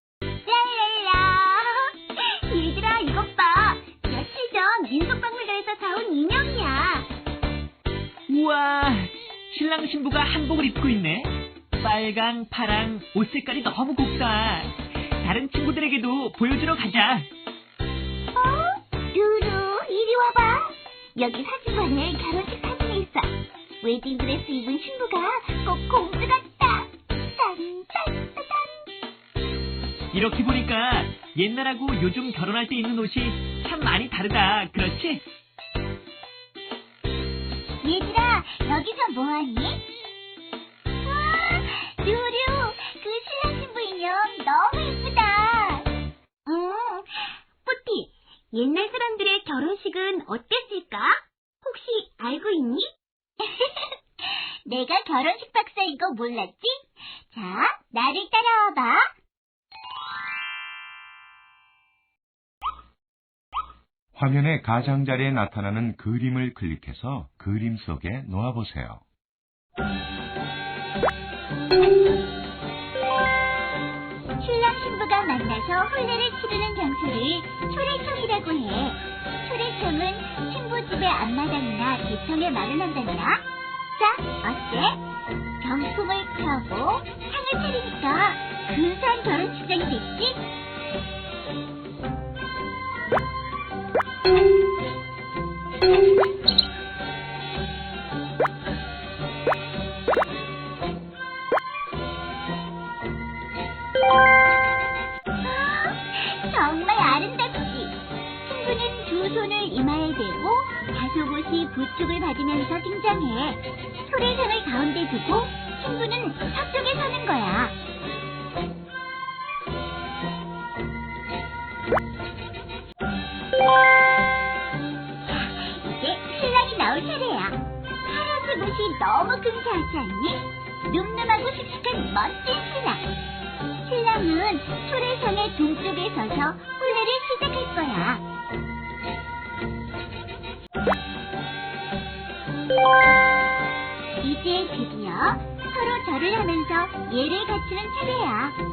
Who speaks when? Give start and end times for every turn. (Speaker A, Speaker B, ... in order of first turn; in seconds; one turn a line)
Speaker A: 0.5-7.1
Speaker B: 8.3-17.3
Speaker A: 18.3-28.8
Speaker B: 30.1-35.2
Speaker A: 37.8-39.8
Speaker A: 41.0-45.9
Speaker A: 46.5-52.8
Speaker A: 53.4-59.1
Speaker C: 64.1-69.0
Speaker A: 74.4-83.4
Speaker A: 84.0-85.0
Speaker A: 85.6-90.4
Speaker A: 105.4-117.8
Speaker A: 125.2-133.0
Speaker A: 133.8-138.2
Speaker A: 144.2-148.6